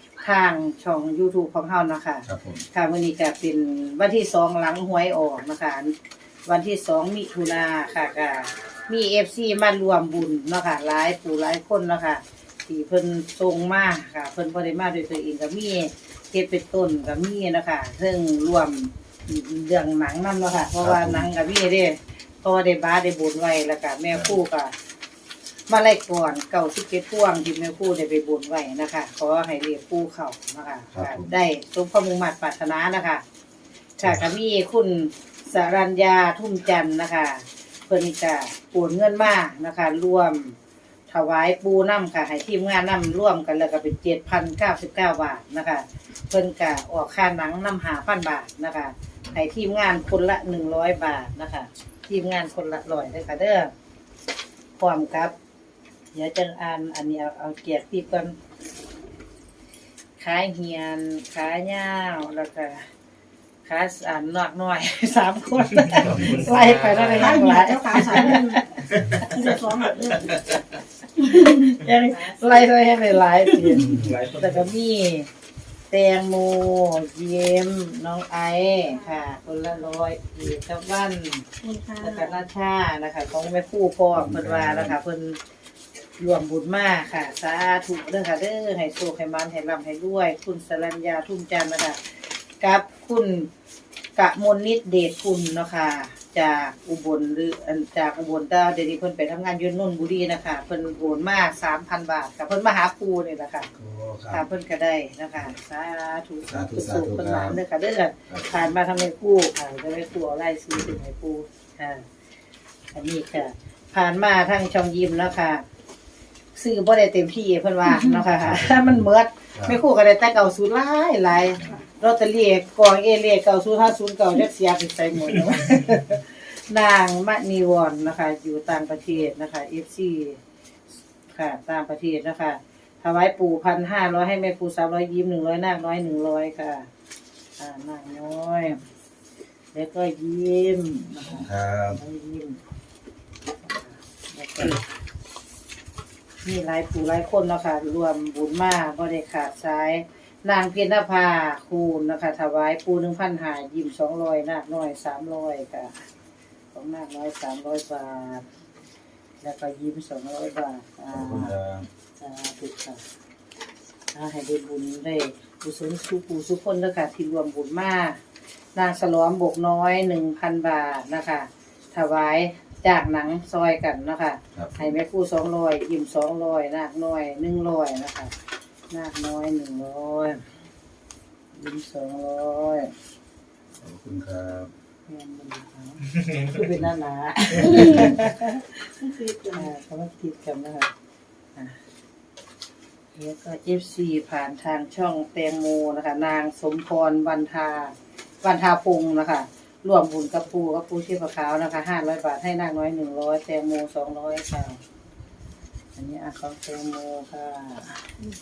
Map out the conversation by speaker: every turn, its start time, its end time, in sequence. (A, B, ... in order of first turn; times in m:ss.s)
0:00.2-0:05.9 A
0:02.3-0:02.6 B
0:06.5-0:24.7 A
0:20.8-0:21.3 B
0:25.7-0:33.2 A
0:30.9-0:31.3 B
0:34.0-0:40.6 A
0:41.1-0:53.7 A
0:54.8-0:55.3 A
0:56.1-0:58.4 A
1:00.2-1:02.9 A
1:03.7-1:08.8 A
1:06.0-1:07.5 B
1:07.2-1:08.6 C
1:09.3-1:10.3 C
1:11.2-1:15.3 A
1:13.7-1:14.7 B
1:15.9-1:21.4 A
1:21.6-1:22.3 C
1:22.0-1:25.4 A
1:24.1-1:25.0 B
1:26.2-1:33.5 A
1:34.2-1:43.7 A
1:43.7-1:44.4 B
1:44.3-1:52.0 A
1:46.5-1:47.6 B
1:48.3-1:48.6 B
1:52.9-1:55.6 A
1:56.6-2:10.4 A
1:58.4-1:58.9 B
2:11.3-2:16.9 A
2:17.6-2:18.8 A
2:19.7-2:22.6 A
2:21.3-2:22.0 B
2:23.6-2:24.8 A
2:26.4-2:36.0 A
2:36.7-2:38.4 A
2:39.4-2:41.6 A
2:41.1-2:41.9 B
2:42.2-2:43.0 A
2:44.1-2:48.2 A
2:48.8-2:58.3 A
2:54.5-2:54.9 B
2:58.9-3:00.4 A
3:01.5-3:02.9 A
3:03.8-3:04.7 B
3:05.1-3:08.8 A
3:09.0-3:09.7 C
3:09.5-3:10.9 A
3:13.2-3:24.8 A
3:26.0-3:28.1 A